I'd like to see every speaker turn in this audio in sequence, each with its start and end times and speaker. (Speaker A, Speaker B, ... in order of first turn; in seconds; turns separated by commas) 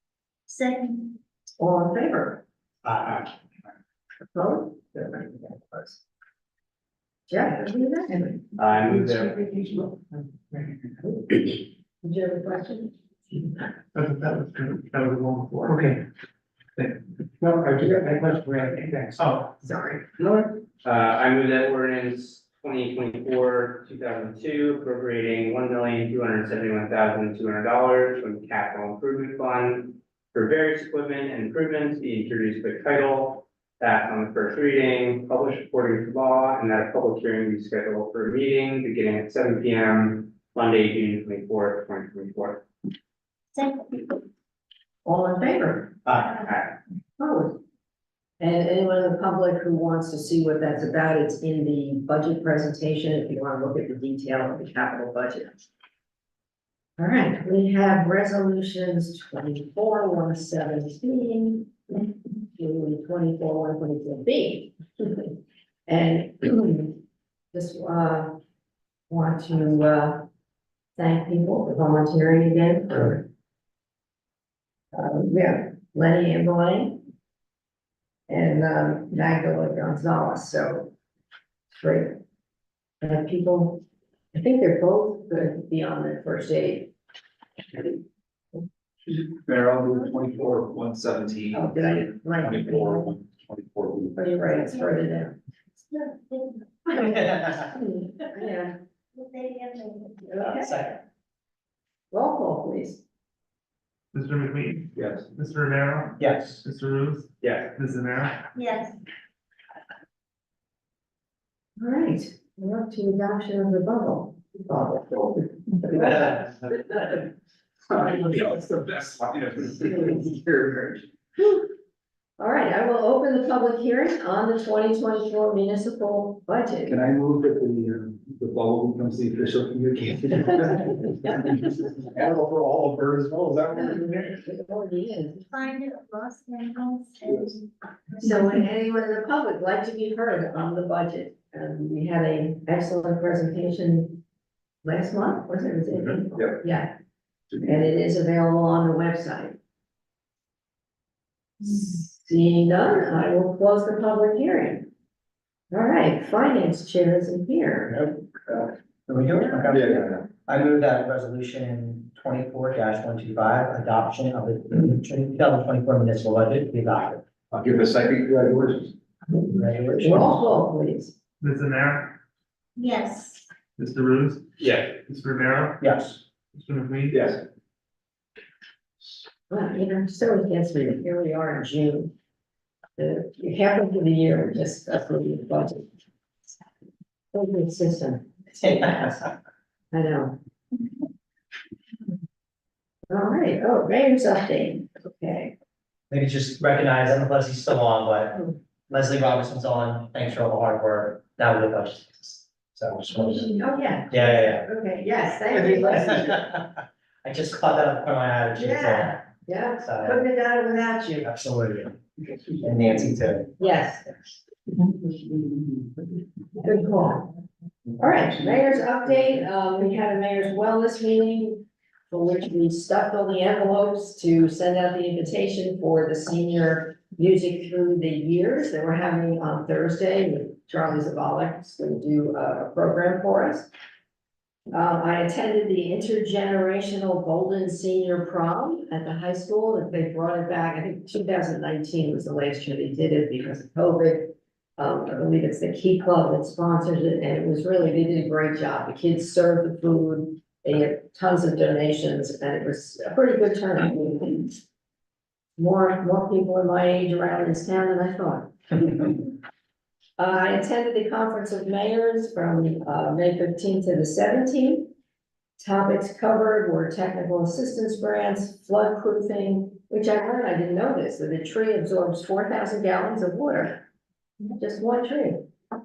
Speaker A: 0.5-1.2, Speaker B: 1.6-2.4, Speaker C: 2.8-3.3, Speaker B: 4.3-6.0, Speaker B: 7.3-8.5, Speaker D: 8.6-9.4, Speaker B: 11.0-13.5, Speaker E: 13.9-16.0, Speaker F: 17.4-17.7, Speaker E: 19.2-19.5, Speaker B: 19.6-20.0, Speaker D: 20.8-42.6, Speaker A: 43.5-44.2, Speaker B: 45.0-46.1, Speaker B: 47.2-47.6, Speaker B: 48.4-55.6, Speaker B: 57.0-65.3, Speaker B: 65.9-67.0, Speaker B: 67.5-68.4, Speaker B: 69.1-70.3, Speaker B: 71.0-73.3, Speaker B: 74.9-77.0, Speaker B: 78.3-80.9, Speaker B: 81.7-82.2, Speaker B: 83.0-83.8, Speaker B: 84.3-86.9, Speaker F: 89.0-94.5, Speaker B: 91.5-93.1, Speaker B: 94.2-95.3, Speaker A: 94.6-95.0, Speaker A: 95.9-97.6, Speaker C: 97.0-97.6, Speaker B: 97.1-98.7, Speaker A: 99.1-100.4, Speaker B: 100.2-100.7, Speaker C: 100.4-101.0, Speaker B: 102.1-103.0, Speaker E: 104.1-108.5, Speaker F: 105.0-105.3, Speaker C: 106.2-106.6, Speaker D: 107.4-107.7, Speaker A: 108.5-109.0, Speaker B: 111.8-116.9, Speaker F: 117.9-121.0, Speaker B: 121.4-121.7, Speaker B: 122.4-127.0, Speaker F: 126.8-134.4, Speaker B: 133.7-135.4, Speaker A: 135.5-137.6, Speaker B: 138.2-144.2, Speaker B: 144.8-146.9, Speaker F: 147.5-147.8, Speaker B: 147.6-149.6, Speaker B: 151.6-154.9, Speaker B: 155.7-158.1, Speaker F: 158.0-158.7, Speaker C: 159.1-167.2, Speaker F: 159.7-160.2, Speaker F: 167.5-168.9, Speaker C: 169.5-170.4, Speaker B: 170.0-171.1, Speaker E: 171.4-172.2, Speaker A: 172.8-173.5, Speaker E: 173.8-175.8, Speaker D: 174.6-174.9, Speaker C: 175.8-176.2, Speaker E: 176.5-177.2, Speaker F: 177.1-177.4, Speaker B: 179.5-182.1, Speaker B: 183.0-185.9, Speaker B: 187.3-189.2, Speaker C: 188.6-189.2, Speaker B: 189.9-190.4, Speaker B: 193.1-195.5, Speaker C: 196.1-203.5, Speaker B: 203.1-206.3, Speaker C: 204.1-204.7, Speaker C: 205.6-209.2, Speaker B: 208.6-211.3, Speaker C: 209.8-210.2, Speaker C: 211.2-212.0, Speaker C: 212.6-213.5, Speaker B: 213.6-214.2, Speaker B: 216.6-217.3, Speaker B: 218.0-233.7, Speaker B: 234.7-254.6, Speaker B: 255.6-259.3, Speaker B: 260.2-264.9, Speaker B: 265.6-273.9, Speaker B: 274.5-275.5